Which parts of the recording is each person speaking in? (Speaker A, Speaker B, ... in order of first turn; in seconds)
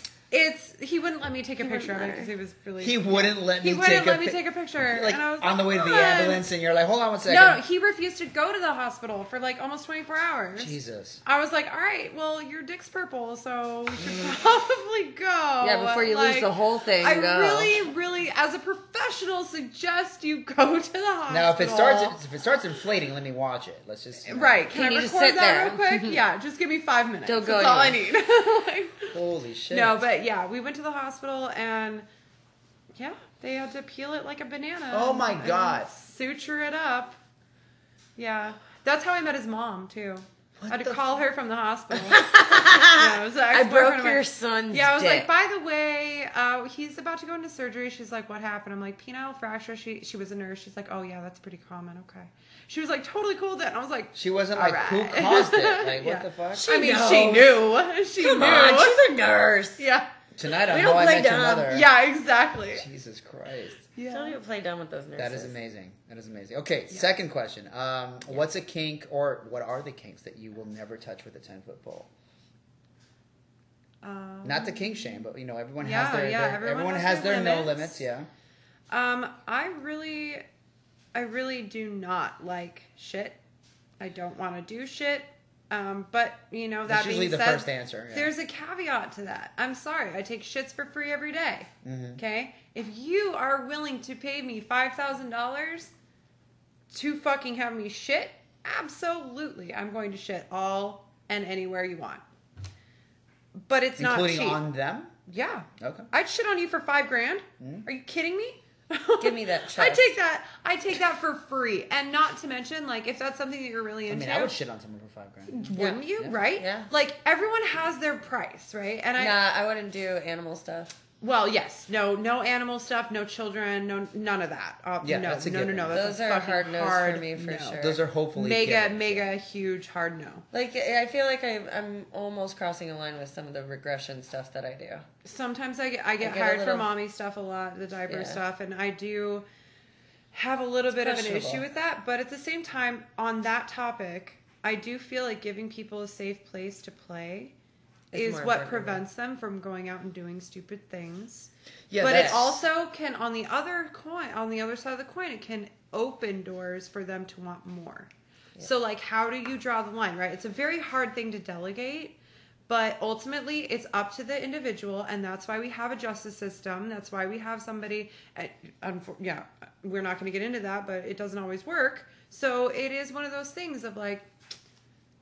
Speaker A: 0.3-6.5, 7.3-22.2, 24.2-29.2, 29.7-32.1, 33.0-37.2, 38.2-59.1, 59.8-60.1, 61.7-62.9, 63.9-64.4, 74.0-75.2, 75.8-78.0, 78.9-80.5, 81.1-83.4, 84.0-95.9, 96.9-102.2, 103.6-104.6, 105.3-114.5, 115.5-119.4, 121.2-130.4, 135.2-139.5, 140.3-147.5, 148.1-162.2, 162.7-174.3
Speaker B: 1.6-2.3, 15.6-17.8, 24.7-26.2, 27.3-28.0, 42.0-45.3, 56.5-57.7, 58.2-59.8, 60.7-61.8, 64.1-65.5, 109.2-110.1, 115.7-116.0, 116.5-116.9, 119.2-121.0, 125.9-128.0, 130.5-135.1, 136.2-136.9, 138.1-138.4, 140.9-141.7, 148.1-149.0, 152.0-152.4
Speaker C: 2.8-7.6, 10.6-11.2, 14.0-14.3, 21.3-24.7, 29.1-30.0, 34.9-35.9, 40.6-41.2, 54.1-56.7, 60.4-62.0, 62.7-63.9, 65.2-72.1, 74.4-78.3, 86.9-88.3, 91.8-92.2, 104.0-105.1, 105.8-106.1, 107.6-107.9, 114.1-116.4, 125.0-126.0, 127.8-129.3, 151.9-152.6